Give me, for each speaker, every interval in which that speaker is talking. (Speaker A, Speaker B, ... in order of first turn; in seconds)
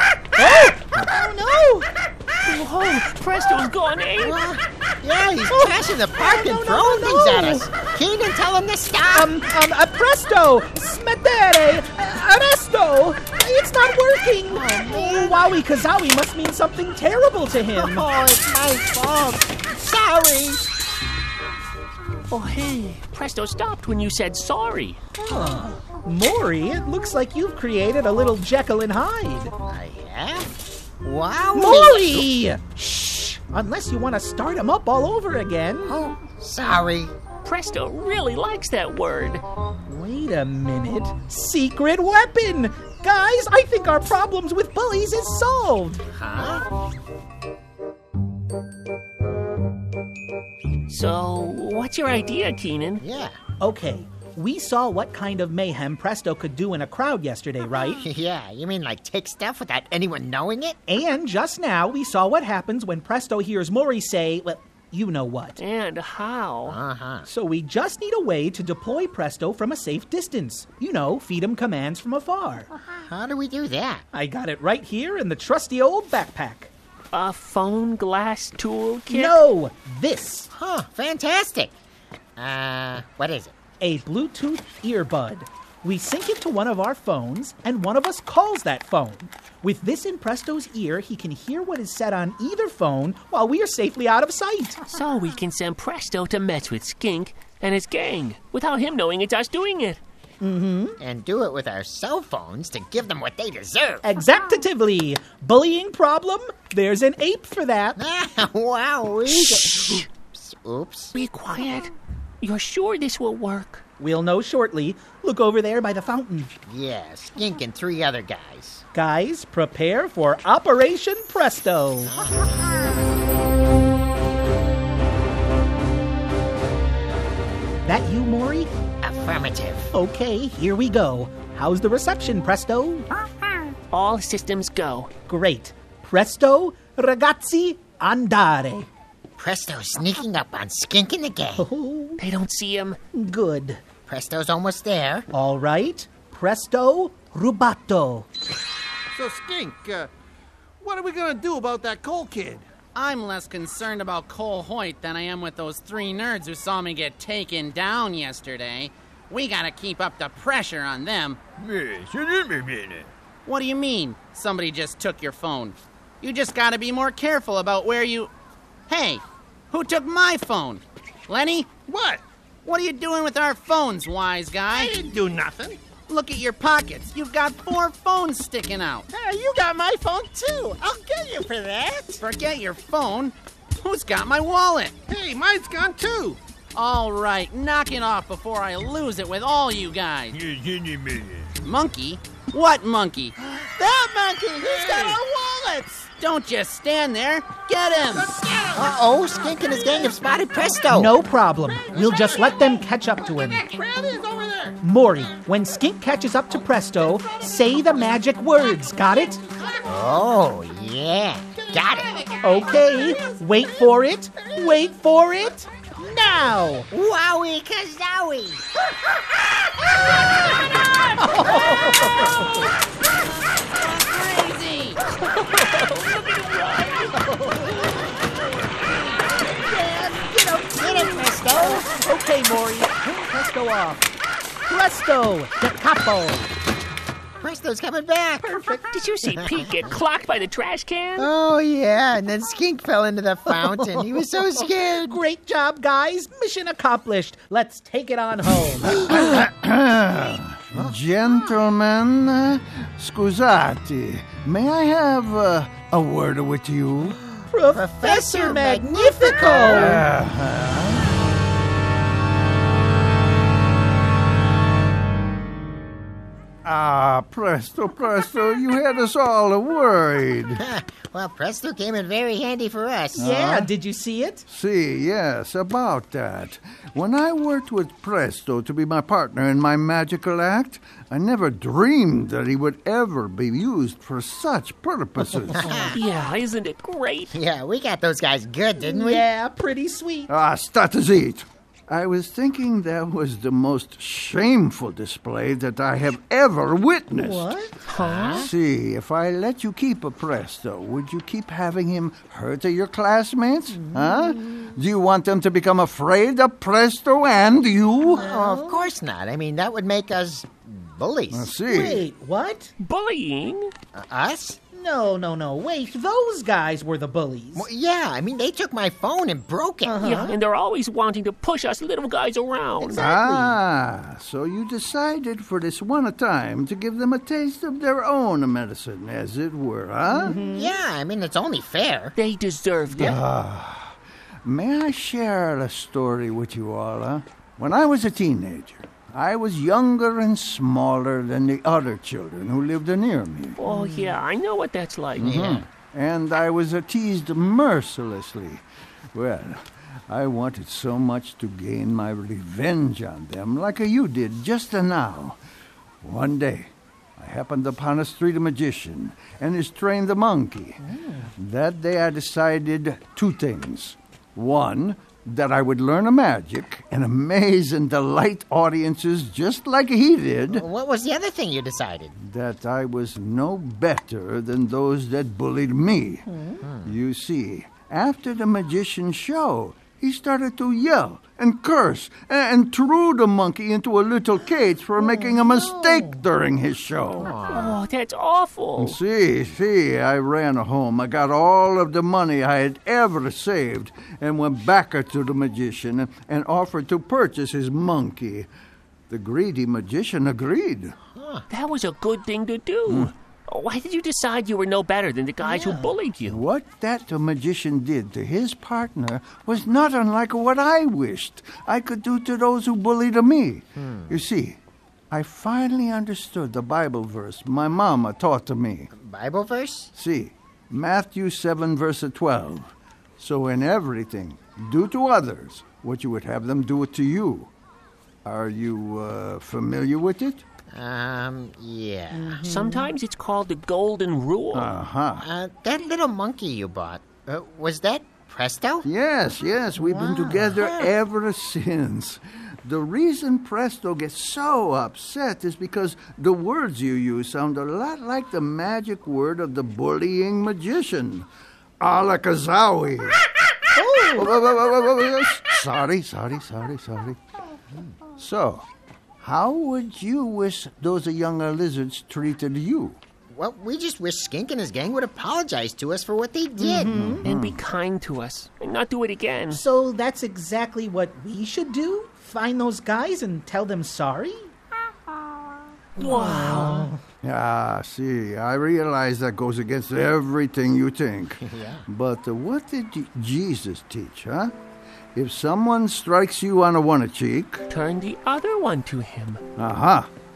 Speaker A: 0.4-1.9, 5.5-7.7, 9.1-18.1, 25.2-29.5, 31.6-36.0, 39.9-46.0, 53.6-58.0, 60.9-65.6, 67.3-72.7, 74.1-76.7, 79.1-80.5, 83.8-94.8, 100.4-101.0, 104.0-108.0, 114.0-116.5, 118.9-122.1, 127.9-128.7, 129.9-133.1, 135.3-138.9, 141.6-142.2, 143.1-143.8, 145.3-148.3, 200.9-203.8, 204.8-209.4, 212.4-216.9, 221.2-222.7, 227.2-227.7, 229.4-234.1, 234.7-236.5, 238.4-238.9, 243.5-249.2, 257.5-260.0, 273.2-274.5, 288.8-290.3, 297.2-297.7, 303.7-304.6, 308.1-308.9, 311.7-312.7, 314.7-317.7, 319.9-320.4, 323.0-323.6, 330.1-330.7, 343.7-344.1, 360.8-361.3, 376.3-376.6, 385.0-386.2, 405.4-405.9, 432.1-432.9, 439.8-440.6, 453.8-454.3, 466.6-467.3, 469.5-474.5, 476.0-477.0
Speaker B: 2.5-4.4, 22.3-25.0, 37.4-39.4, 50.9-53.0, 65.6-66.8, 77.1-79.4, 94.9-100.0, 109.6-110.0, 111.1-113.8, 133.9-135.1, 142.2-143.0, 225.0-227.2, 238.9-241.3, 285.7-287.4, 297.9-298.5, 312.8-313.7, 320.0-323.0, 332.1-333.2, 343.6-345.6, 387.5-389.0, 401.5-406.4, 432.5-434.7, 467.2-469.6, 476.0-476.9, 487.7-489.4
Speaker C: 4.2-9.3, 14.5-15.5, 17.7-20.6, 29.7-32.3, 35.9-37.1, 46.1-46.6, 53.0-53.4, 58.0-60.8, 66.7-67.3, 72.9-74.0, 80.5-81.7, 82.4-83.5, 101.0-104.0, 108.0-111.2, 116.7-118.8, 122.1-122.9, 129.0-129.9, 139.4-141.7, 144.1-145.3, 179.1-182.2, 198.8-201.1, 209.8-212.2, 216.9-218.7, 230.8-231.9, 237.4-238.6, 241.2-245.2, 257.4-260.1, 270.6-273.3, 285.5-286.0, 287.3-289.3, 298.0-298.5, 308.1-311.5, 313.9-314.6, 317.6-320.2, 322.8-323.2, 330.4-332.1, 370.5-372.1, 376.6-376.9, 387.2-387.8, 401.1-401.4, 413.8-414.1, 418.9-419.9, 430.7-432.4, 435.2-438.9, 440.6-440.9, 463.3-467.0, 481.4-481.9
Speaker D: 149.2-150.1, 150.8-152.6, 161.6-163.1, 174.8-175.5, 185.1-186.3, 190.3-191.6, 194.5-195.2
Speaker E: 152.9-161.4, 163.5-168.3, 168.9-171.8, 172.7-174.9, 176.1-179.1, 182.2-185.0, 186.8-190.4, 191.6-193.3, 196.2-198.4, 223.8-225.0
Speaker F: 248.9-257.2, 259.7-261.2, 266.6-270.6, 273.2-273.7, 274.5-285.7, 290.3-297.5, 298.3-308.3, 311.3-312.1, 323.0-330.4, 332.9-343.6, 345.2-355.4, 356.0-360.8, 361.4-370.7, 372.2-376.3, 376.8-387.4, 388.8-398.5, 399.1-400.9, 402.9-403.1, 406.2-414.6, 415.1-418.9, 419.9-427.5, 428.2-430.4, 434.5-435.2, 438.8-451.3, 451.8-453.2, 454.0-457.2, 458.2-458.6, 459.2-463.0, 466.9-467.6, 477.2-484.6, 485.1-487.7, 489.6-490.1